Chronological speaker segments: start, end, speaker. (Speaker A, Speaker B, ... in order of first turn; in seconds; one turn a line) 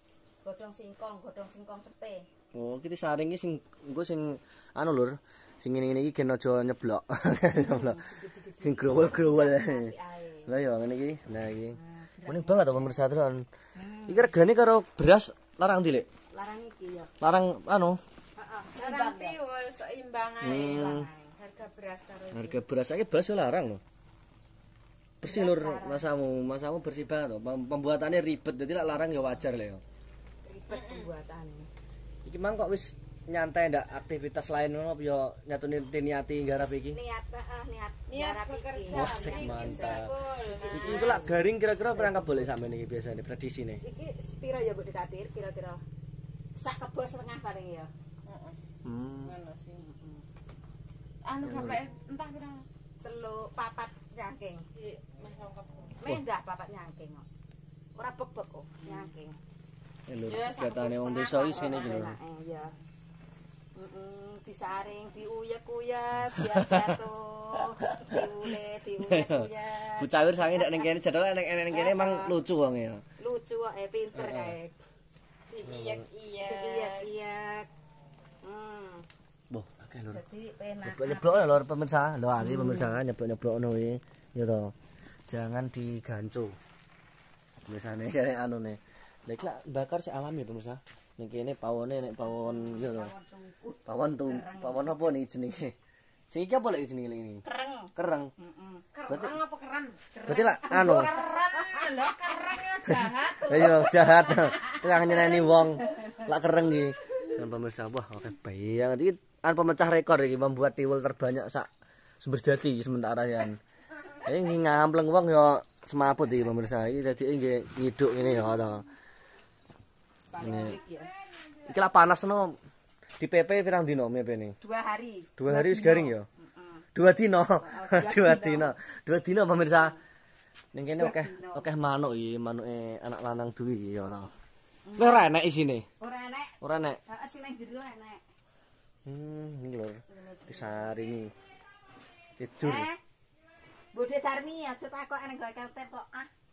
Speaker A: 0.4-2.2
Speaker B: 2.5-8.0
Speaker A: 7.5-10.5
Speaker B: 8.6-9.9
Speaker B: 10.4-13.4
Speaker A: 11.7-13.0
Speaker A: 13.8-14.4
Speaker B: 14.1-16.1
Speaker A: 16.3-17.1
Speaker B: 17.2-18.0
Speaker A: 18.4-19.4
Speaker C: 18.8-22.6
Speaker B: 20.4-21.1
Speaker A: 20.6-21.3
Speaker B: 22.3-23.8
Speaker B: 25.2-29.8
Speaker A: 25.2-26.1
Speaker A: 30.4-31.7
Speaker C: 30.7-31.1
Speaker B: 32.2-37.0
Speaker A: 36.8-42.5
Speaker C: 38.1-41.3
Speaker B: 38.9-40.1
Speaker B: 40.7-43.8
Speaker A: 43.8-45.8
Speaker A: 46.5-47.9
Speaker C: 48.3-48.6
Speaker B: 48.8-49.3
Speaker C: 49.2-49.8
Speaker A: 49.8-50.2
Speaker C: 51.2-52.6
Speaker B: 51.4-51.8
Speaker A: 53.0-54.6
Speaker C: 54.7-56.0
Speaker A: 56.0-57.2
Speaker A: 58.0-59.4
Speaker C: 58.8-59.1
Speaker B: 60.1-62.1
Speaker C: 60.2-62.0
Speaker A: 61.3-62.7
Speaker A: 63.8-70.9
Speaker B: 66.4-66.8
Speaker B: 67.8-68.2
Speaker B: 69.0-73.0
Speaker A: 71.7-72.3
Speaker A: 73.2-74.8
Speaker B: 74.1-74.5
Speaker C: 75.5-77.1
Speaker B: 75.7-76.0
Speaker A: 76.4-77.7
Speaker A: 78.4-79.0
Speaker B: 79.5-80.2
Speaker A: 80.1-81.5
Speaker B: 80.8-84.7
Speaker A: 82.4-83.0
Speaker B: 85.3-86.6
Speaker B: 87.7-93.1
Speaker A: 92.2-95.0
Speaker B: 93.8-95.7
Speaker B: 96.3-97.4
Speaker A: 97.4-98.8
Speaker B: 97.9-98.3
Speaker C: 98.9-105.0
Speaker B: 99.1-99.4
Speaker A: 100.2-102.5
Speaker B: 100.3-101.1
Speaker B: 103.4-111.7
Speaker A: 104.5-106.2
Speaker B: 112.2-113.6
Speaker B: 114.2-118.8
Speaker A: 120.3-121.1
Speaker B: 120.4-120.8
Speaker B: 121.7-122.5
Speaker B: 123.2-124.5
Speaker A: 124.6-126.8
Speaker B: 125.4-126.2
Speaker B: 126.9-129.9
Speaker A: 127.6-128.7
Speaker B: 130.7-134.3
Speaker A: 130.9-131.7
Speaker A: 134.9-135.3
Speaker B: 135.0-135.9
Speaker A: 136.0-138.2
Speaker B: 136.6-137.0
Speaker B: 139.1-141.3
Speaker A: 140.1-140.9
Speaker B: 142.4-142.9
Speaker A: 142.6-143.0
Speaker A: 143.9-146.3